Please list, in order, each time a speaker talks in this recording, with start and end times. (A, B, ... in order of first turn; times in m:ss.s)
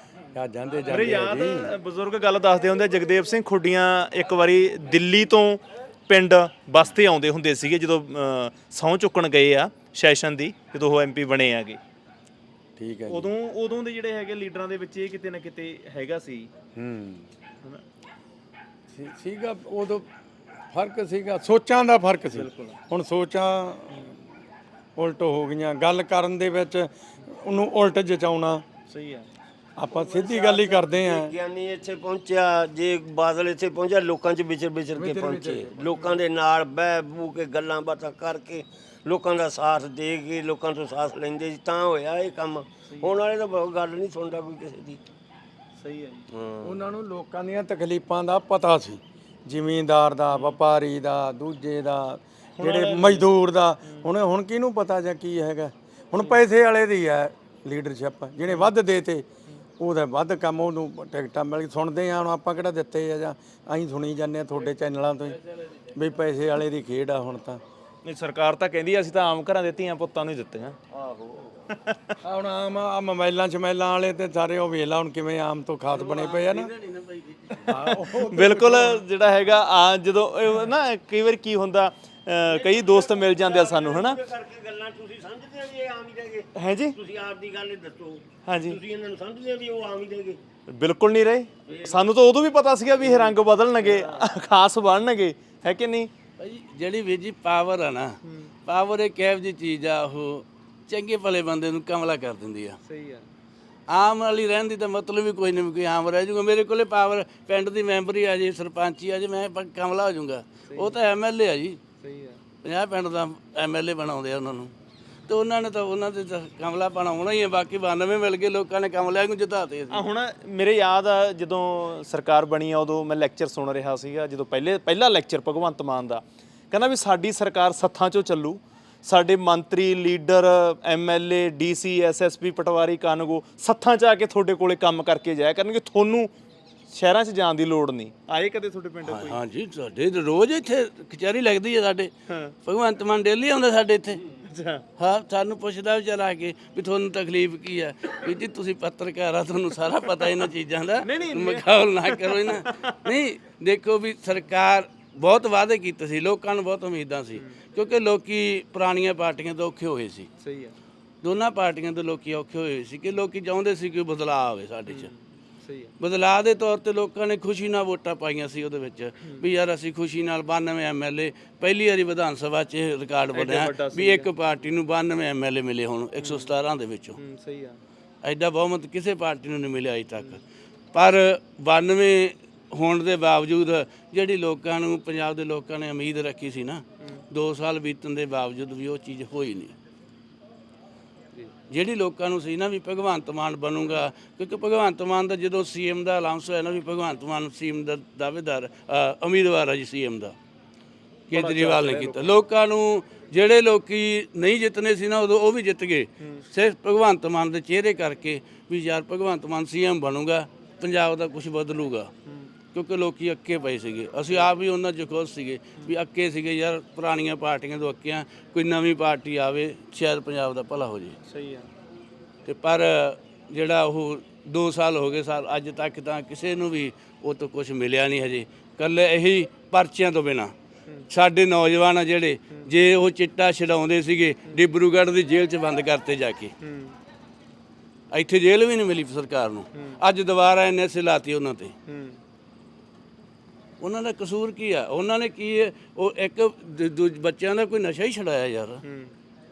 0:00.3-0:01.7 A
0:00.6-0:01.6 B
0:00.9-0:11.8 C
0:12.8-0:13.3 A
0:13.1-0:16.5 C
0:16.8-0:17.3 A
0:18.9-0:20.1 A
0:20.7-0:24.1 A
0:22.3-0:22.8 C
0:25.0-0:28.6 A
0:28.9-0:29.3 C
0:29.8-0:31.3 A
0:29.9-0:45.0 D
0:35.0-0:36.0 A
0:42.9-0:43.2 C
0:45.8-0:46.2 C
0:46.3-0:46.8 D
0:46.6-0:59.3 A
0:50.3-0:50.6 C
0:52.6-0:53.3 C
0:59.8-1:05.4 A
1:05.5-1:05.9 B
1:06.0-1:07.6 A
1:08.0-1:10.8 C
1:10.9-1:11.6 D
1:11.7-1:12.2 C
1:12.2-1:16.7 A
1:15.9-1:17.9 B
1:17.7-1:19.0 A
1:17.7-1:24.2 C
1:22.5-1:30.4 D
1:26.5-1:27.0 C
1:28.5-1:28.8 C
1:30.7-1:36.1 C
1:31.7-1:32.0 D
1:33.0-1:34.3 D
1:36.4-1:42.8 B
1:38.2-1:38.5 C
1:42.8-1:43.2 C
1:43.9-1:51.8 B
1:50.7-1:51.0 C
1:52.0-1:52.4 C
1:52.6-1:54.7 B
1:55.3-2:00.0 B
1:59.9-2:16.3 C
2:16.9-2:19.4 C
2:19.0-2:22.1 B
2:22.3-2:22.5 C
2:22.6-2:24.2 B
2:24.4-2:24.8 C
2:25.0-2:40.3 B
2:31.0-2:33.0 C
2:40.4-2:40.7 C
2:41.2-2:45.1 B
2:44.9-2:45.9 C
2:46.0-2:57.2 B
2:53.3-2:54.3 C
2:56.2-2:56.5 C
2:57.2-2:57.8 C
2:58.2-3:00.4 B
3:00.9-3:09.8 B
3:11.7-3:20.4 B
3:21.3-3:32.1 B
3:21.3-3:22.4 C
3:32.3-3:32.5 C
3:32.7-3:41.2 B
3:41.3-3:41.7 C
3:42.4-3:50.5 B
3:51.1-3:56.5 B
3:56.6-3:56.9 C
3:58.1-4:01.7 B
3:59.7-4:00.0 C
4:01.9-4:02.2 C
4:03.8-4:08.8 B
4:08.8-4:09.1 C